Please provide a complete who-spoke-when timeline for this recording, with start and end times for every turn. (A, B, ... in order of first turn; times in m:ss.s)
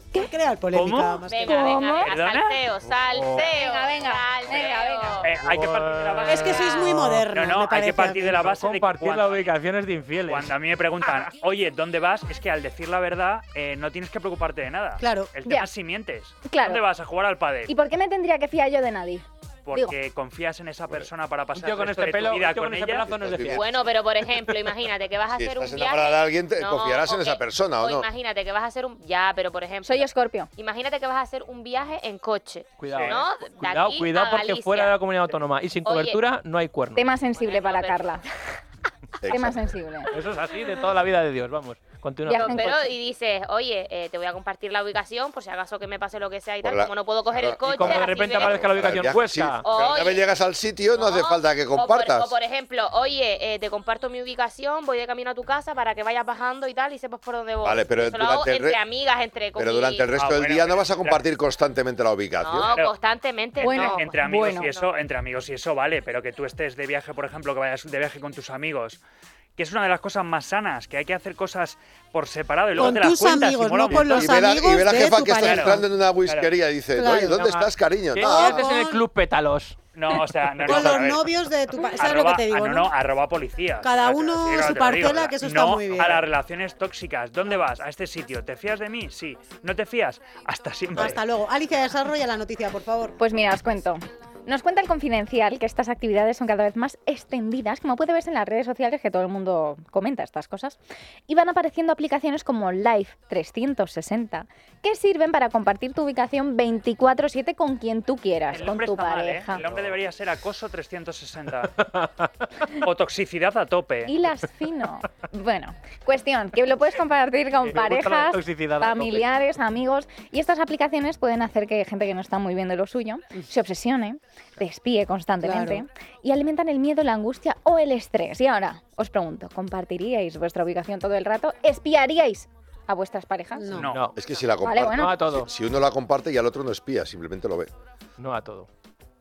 0:00.1-0:01.6 A
0:00.7-0:01.2 B
0:01.3-0:05.4 C
0:01.5-0:02.1 D
0:01.9-0:02.6 B
0:03.0-0:03.5 E
0:03.3-0:05.2 D
0:05.2-0:09.5 B
0:05.4-0:07.2 E
0:06.3-0:06.8 C
0:06.3-0:08.5 A
0:08.4-0:10.5 E
0:10.2-0:17.7 B
0:15.0-0:15.3 A
0:16.5-0:16.8 D
0:17.7-0:20.0 D
0:19.7-0:23.1 B
0:21.5-0:23.6 E
0:23.1-0:23.9 F
0:23.5-0:35.3 C
0:25.3-0:28.1 F
0:29.8-0:30.5 D
0:32.8-0:37.1 E
0:32.9-0:33.2 B
0:35.8-0:36.2 C
0:37.0-0:38.2 D
0:37.3-0:38.3 C
0:39.2-0:39.6 F
0:39.3-0:40.1 D
0:40.1-0:42.8 E
0:42.3-0:42.9 D
0:42.4-0:48.7 C
0:46.6-0:52.4 F
0:47.7-0:49.7 E
0:49.6-0:50.3 C
0:51.0-1:00.1 C
0:57.6-0:58.8 F
0:59.6-1:02.8 F
1:00.1-1:01.3 B
1:02.4-1:04.9 C
1:03.6-1:04.7 D
1:03.6-1:09.0 B
1:09.6-1:14.5 B
1:12.8-1:15.8 A
1:13.9-1:18.6 F
1:15.3-1:16.6 B
1:16.9-1:17.5 A
1:17.4-1:20.2 E
1:18.2-1:19.0 A
1:20.0-1:21.3 B
1:20.6-1:22.9 A
1:21.9-1:31.2 B
1:23.8-1:26.3 A
1:31.0-1:33.2 A
1:33.2-1:49.6 D
1:48.5-1:51.8 B
1:49.6-1:50.0 E
1:51.9-1:52.3 E
1:52.8-1:54.1 B
1:54.1-2:13.8 D
1:57.7-1:59.3 E
2:05.4-2:05.8 A
2:13.6-2:13.9 A
2:13.7-2:14.4 B
2:13.9-2:14.2 E
2:14.2-2:17.7 F
2:14.6-2:15.2 D
2:15.0-2:15.5 E
2:18.2-2:18.7 E